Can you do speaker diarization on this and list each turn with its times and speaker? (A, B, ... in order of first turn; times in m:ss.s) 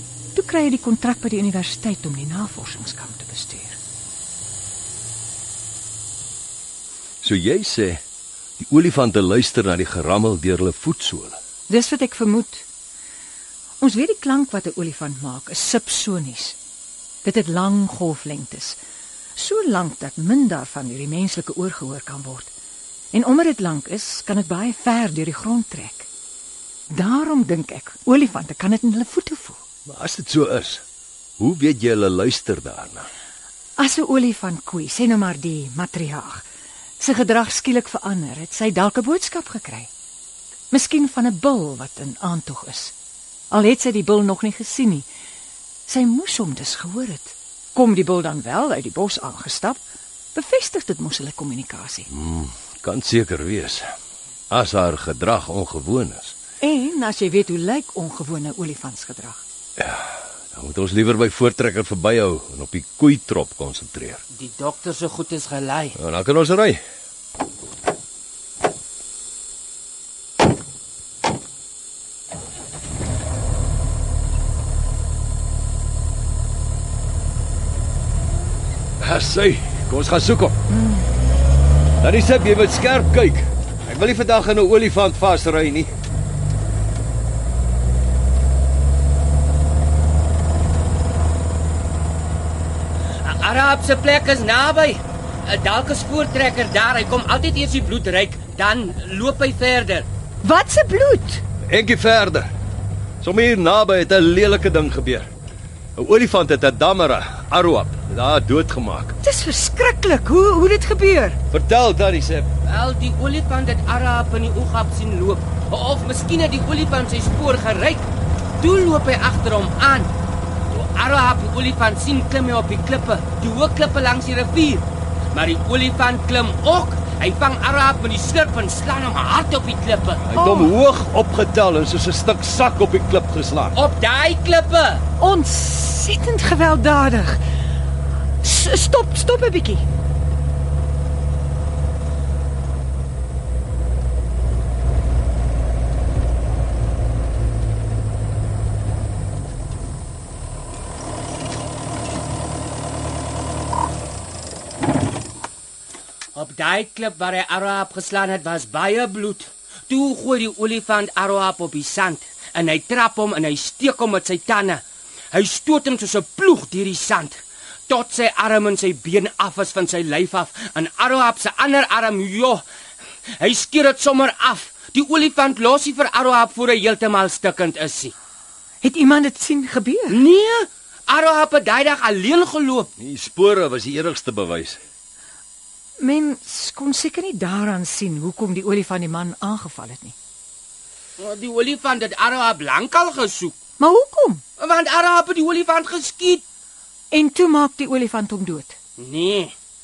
0:00.3-0:03.8 A
0:07.2-0:08.0 B
0:08.6-0:11.4 B
0:11.7-0:12.6 A
0:13.8-0:16.6 A
0:17.2-0:18.8 A
0:19.4-0:22.5 A
0:23.1-0:26.1 A
0:26.9-0:29.6 A
0:29.8-0:30.8 B
0:31.4-0:33.1 B
0:33.8-0:36.4 A
0:37.0-0:39.9 A
0:40.7-0:42.9 A
0:43.5-0:45.0 A
0:45.9-0:49.8 A
0:50.3-0:52.1 A
0:52.1-0:53.9 B
0:54.5-0:56.3 B
0:56.6-0:59.4 A
0:59.8-1:04.2 B
1:04.3-1:06.0 C
1:05.9-1:06.8 B
1:19.0-1:20.6 B
1:20.7-1:21.0 A
1:22.0-1:25.9 B
1:33.2-1:40.0 C
1:40.4-1:41.4 A
1:41.6-1:42.5 B
1:43.2-1:45.3 B
1:46.0-1:49.1 B
1:49.2-1:51.4 A
1:51.5-1:52.5 B
1:52.6-1:58.1 C
1:58.6-2:00.1 C
2:00.7-2:10.2 C
2:10.2-2:13.8 B
2:10.3-2:10.7 A
2:13.7-2:15.0 C
2:15.2-2:17.4 A
2:18.4-2:19.8 A
2:36.3-2:44.8 C
2:45.3-2:52.6 C
2:53.4-2:58.1 C
2:58.8-3:00.2 A
3:00.1-3:02.9 C
3:03.0-3:04.8 B
3:06.0-3:10.1 A
3:11.2-3:13.5 C
3:13.8-3:14.4 A
3:14.6-3:16.4 C
3:17.1-3:18.8 A
3:19.0-3:19.5 C